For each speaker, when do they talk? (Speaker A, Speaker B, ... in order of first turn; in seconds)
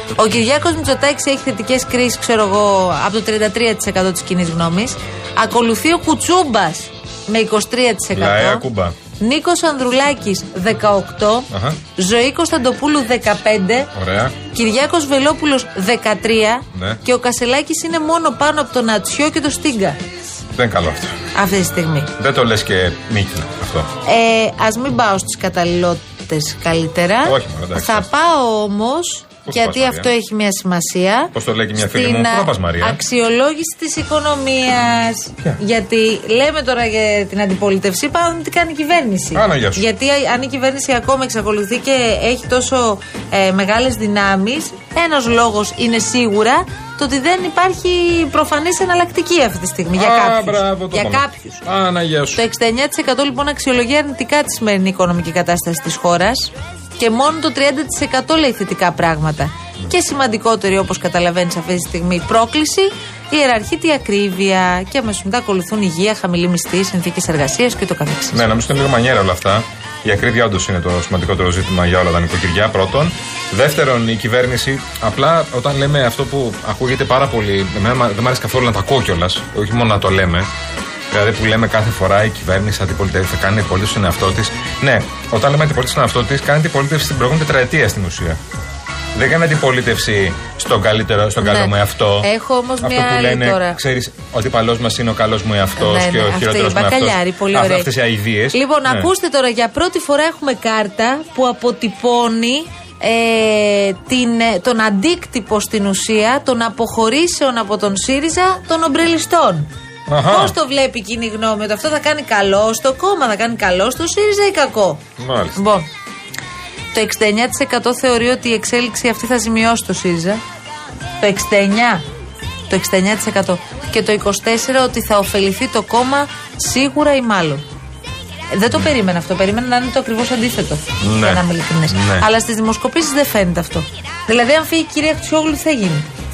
Speaker A: 0.1-8.6, 9.2-13.9, 14.5-20.0, 21.3-22.1, 24.0-51.6, 52.3-68.5, 91.4-93.8, 95.8-97.9, 98.5-109.7, 110.3-115.0, 115.5-115.9, 116.9-120.4, 121.2-122.0, 122.7-127.6, 128.5-136.1
Speaker B: 8.1-8.9, 11.5-11.8, 13.9-14.3, 16.7-17.0, 20.5-21.1, 22.2-23.9, 27.2-28.1, 29.4-30.1, 31.3-33.0, 39.3-39.8, 50.0-52.4, 68.3-80.5, 81.1-88.4, 89.1-92.3, 92.8-99.1, 110.1-110.5, 115.2-115.6, 131.0-132.3